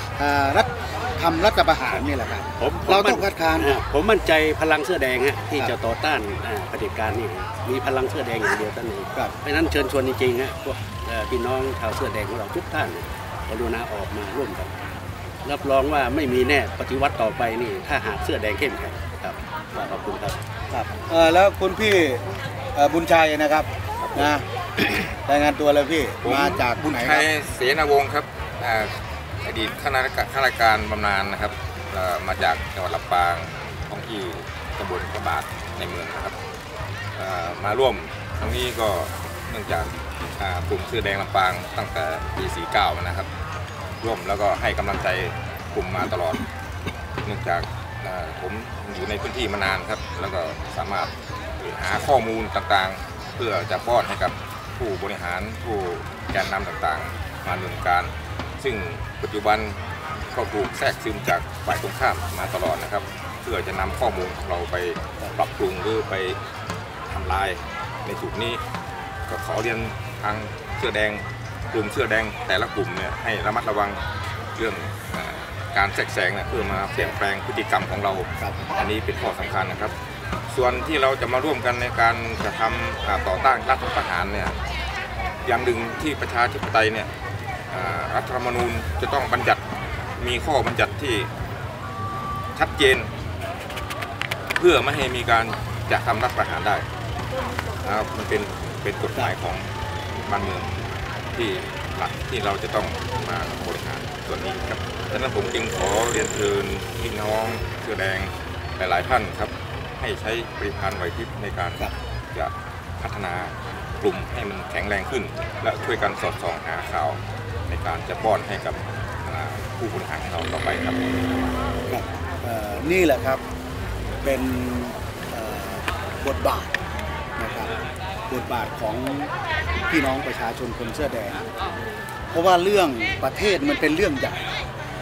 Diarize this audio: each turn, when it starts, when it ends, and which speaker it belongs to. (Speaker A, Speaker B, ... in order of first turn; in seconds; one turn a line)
Speaker A: 0.2-3.7
Speaker B: 2.6-14.7
Speaker B: 15.4-20.4
Speaker A: 20.7-22.2
Speaker A: 22.8-24.4
Speaker C: 24.0-24.3
Speaker A: 25.1-27.3
Speaker C: 26.2-36.4
Speaker C: 37.2-43.3
Speaker C: 44.0-46.4
Speaker C: 47.2-59.8
Speaker C: 60.3-66.4
Speaker C: 67.1-68.6
Speaker C: 69.3-74.0
Speaker C: 74.6-79.9
Speaker C: 80.5-84.5
Speaker C: 85.5-87.1
Speaker C: 87.7-89.6
Speaker C: 90.2-91.3
Speaker C: 92.5-93.1
Speaker C: 94.6-96.8
Speaker C: 97.8-99.7
Speaker C: 100.2-100.7
Speaker C: 101.3-121.0
Speaker A: 121.9-123.4
Speaker A: 124.2-126.7
Speaker A: 127.4-127.7
Speaker A: 128.3-129.3
Speaker A: 129.9-131.4
Speaker A: 132.3-134.6